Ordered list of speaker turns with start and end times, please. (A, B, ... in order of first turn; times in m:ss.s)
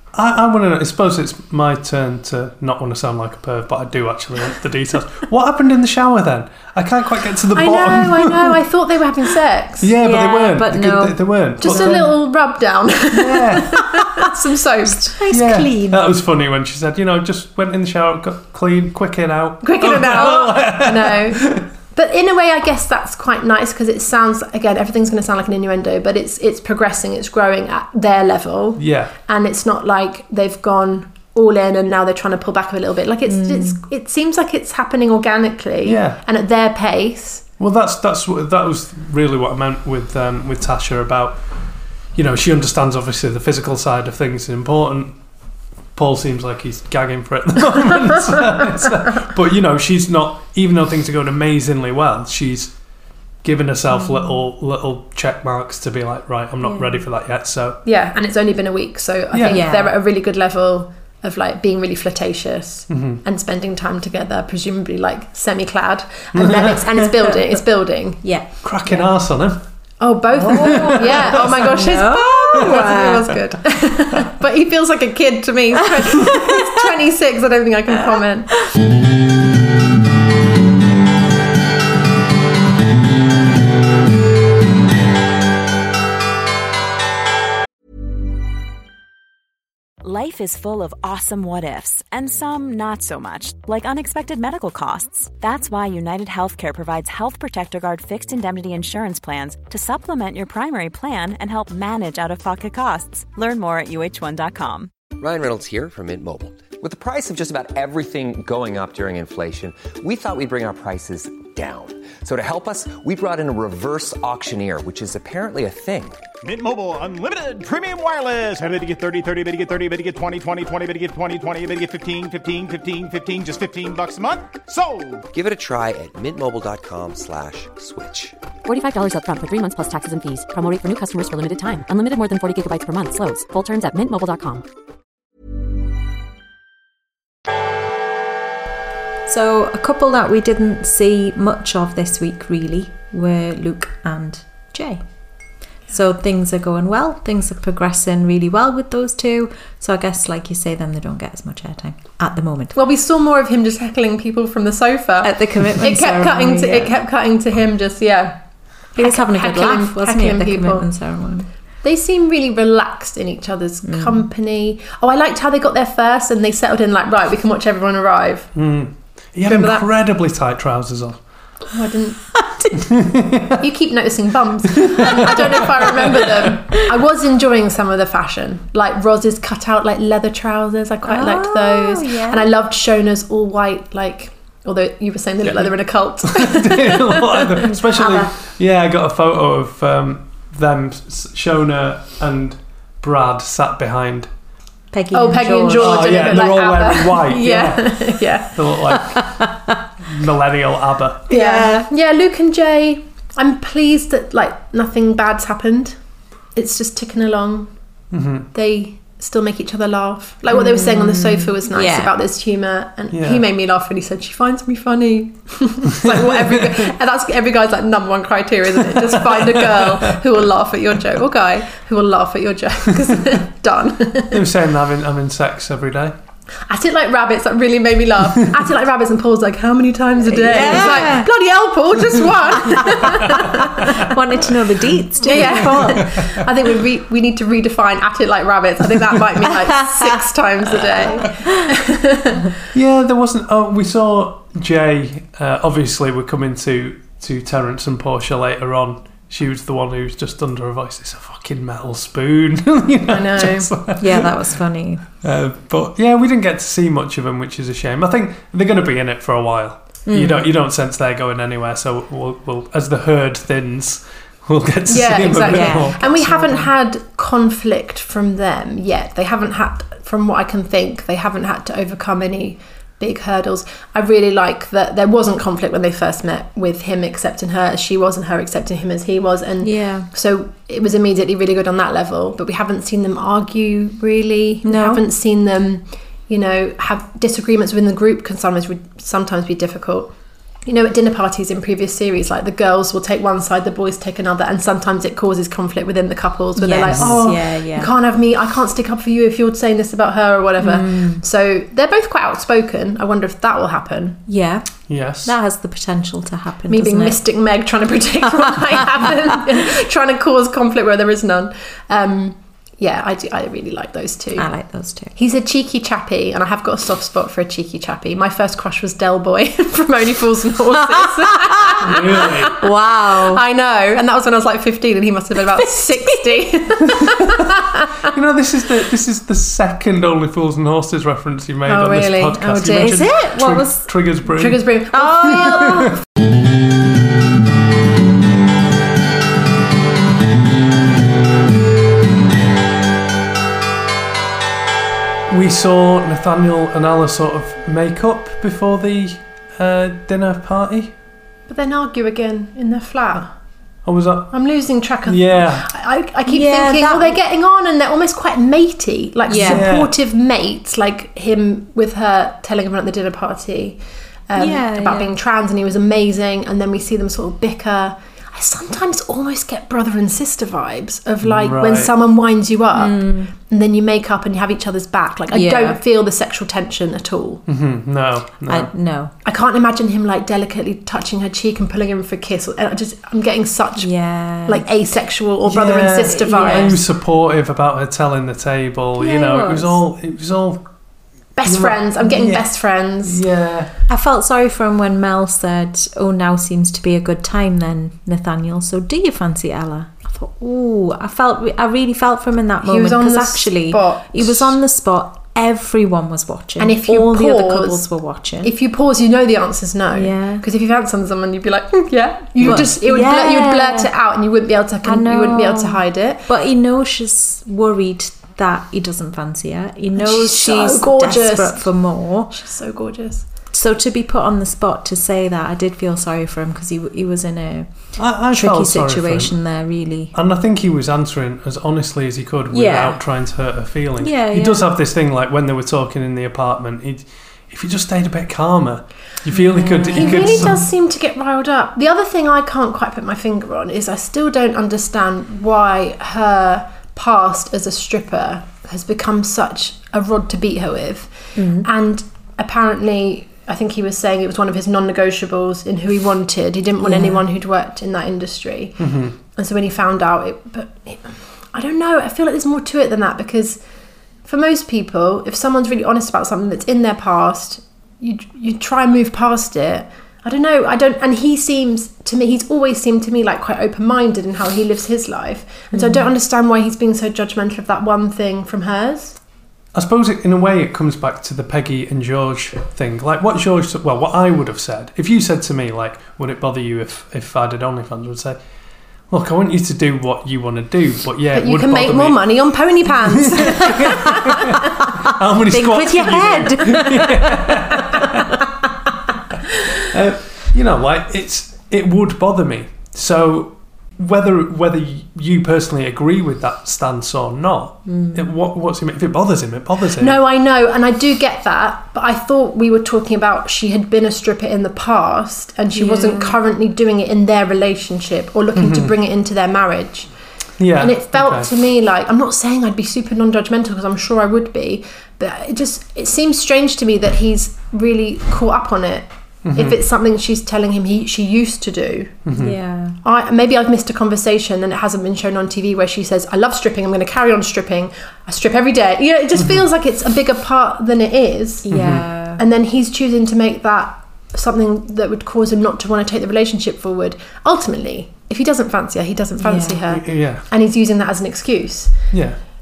0:00.1-0:08.5 A
0:07.5-0:09.9 B
0:09.8-0:12.1 A
0:10.0-0:12.1 C
0:11.6-0:15.1 B
0:13.1-0:13.9 A
0:14.8-0:16.1 C
0:15.3-0:21.6 A
0:19.6-0:37.5 B
0:28.8-0:29.1 A
0:33.3-0:33.8 C
0:35.8-0:36.2 A
0:37.6-0:45.2 A
0:45.9-0:52.8 A
0:53.4-0:57.8 A
0:53.9-0:54.4 C
0:56.6-0:57.0 C
0:57.8-1:08.4 B
0:59.3-0:59.6 A
0:59.5-0:59.9 C
1:02.9-1:03.2 A
1:06.3-1:06.8 A
1:08.2-1:09.1 C
1:08.6-1:09.6 A
1:10.0-1:18.6 B
1:10.3-1:11.9 A
1:10.5-1:13.3 C
1:30.0-1:44.9 D
1:45.1-1:56.2 E
1:56.4-2:05.2 F
2:05.3-2:08.4 E
2:08.6-2:14.6 G
2:19.3-2:32.7 C
2:32.7-2:40.9 B
2:35.2-2:36.9 C
2:39.0-2:41.5 C
2:41.8-2:48.5 B
2:43.8-2:44.3 C
2:48.5-2:51.2 A
2:49.4-2:49.9 C
2:51.7-2:52.3 B
2:52.3-2:52.8 C
2:53.6-3:07.6 B
2:55.3-2:56.2 C
3:01.0-3:02.5 C
3:06.3-3:14.3 A
3:07.7-3:08.3 C
3:14.9-3:16.3 C
3:15.1-3:18.6 B
3:15.7-3:19.5 A
3:19.1-3:19.7 C
3:20.1-3:21.2 A
3:21.3-3:21.8 C
3:21.3-3:26.0 B
3:26.5-3:27.7 B
3:28.1-3:28.5 A
3:28.5-3:44.4 B
3:30.5-3:32.1 C
3:33.1-3:33.4 A
3:36.0-3:36.9 A
3:38.8-3:39.9 A
3:44.3-3:46.1 A
3:46.7-3:54.0 B
3:50.3-3:51.3 C
3:52.6-3:56.0 C
3:55.2-4:02.5 B
3:55.3-3:55.9 A
3:59.8-4:00.1 C
4:00.7-4:01.3 C
4:02.7-4:14.4 A
4:13.1-4:13.7 B
4:14.0-4:15.0 C
4:15.2-4:26.2 A
4:20.0-4:20.5 C
4:24.9-5:04.2 B
4:25.4-4:26.7 C
4:39.6-4:40.1 C
4:44.6-4:45.0 C
4:56.6-4:57.9 C
4:56.8-4:57.2 A
5:00.6-5:01.2 C
5:04.3-5:07.2 C
5:04.9-5:05.3 A
5:06.7-5:14.5 B
5:14.4-5:15.1 C
5:15.2-5:22.5 B
5:21.4-5:23.4 C
5:21.8-5:22.6 A
5:23.2-5:27.5 B
5:25.7-5:26.1 C
5:28.1-5:34.8 A
5:31.6-5:33.2 B
5:32.6-5:34.1 C
5:34.3-5:35.8 B
5:34.9-5:35.9 C
5:45.3-5:50.9 A
5:51.5-5:53.3 B
5:53.8-5:55.7 A
5:54.3-6:17.4 B
5:56.3-5:57.2 C
5:59.3-5:59.7 C
5:59.3-5:59.9 A
6:04.4-6:05.1 C
6:11.2-6:11.9 A
6:12.7-6:13.3 C
6:15.3-6:15.8 C
6:17.5-6:18.7 A
6:18.4-6:19.1 C
6:19.2-6:26.8 B
6:23.8-6:24.6 C
6:25.4-6:30.8 A
6:26.1-6:26.8 C
6:29.0-6:29.8 C
6:31.4-6:33.2 B
6:31.4-6:33.7 A
6:33.9-6:48.5 C
6:42.6-6:44.6 B
6:46.6-6:47.9 B
6:48.4-6:56.2 B
6:49.9-6:50.4 C
6:52.4-6:52.7 A
6:52.4-6:53.9 C
6:54.8-7:02.4 C
7:00.0-7:03.2 B
7:03.5-7:10.1 C
7:08.0-7:20.6 A
7:12.5-7:13.3 C
7:14.0-7:14.7 C
7:19.3-7:20.6 C
7:19.9-7:43.6 B
7:31.3-7:31.7 C
7:36.8-7:37.2 C
7:38.8-7:39.1 A
7:44.2-7:59.2 B
7:55.7-7:56.1 C
7:59.7-8:08.4 A
8:09.0-8:14.4 A
8:11.3-8:14.0 B
8:15.1-8:18.2 A
8:15.5-8:17.5 C
8:19.9-8:30.2 A
8:27.8-8:28.3 C
8:30.0-8:52.2 B
8:35.7-8:36.4 C
8:38.5-8:39.0 A
8:40.6-8:41.5 A
8:49.4-8:49.8 A
8:52.2-8:52.6 A
8:52.4-8:53.0 C
8:53.0-9:12.2 B
8:59.4-8:59.6 A
9:01.6-9:02.4 C
9:01.7-9:02.1 A
9:09.4-9:09.8 C
9:09.9-9:10.4 A
9:12.1-9:12.4 A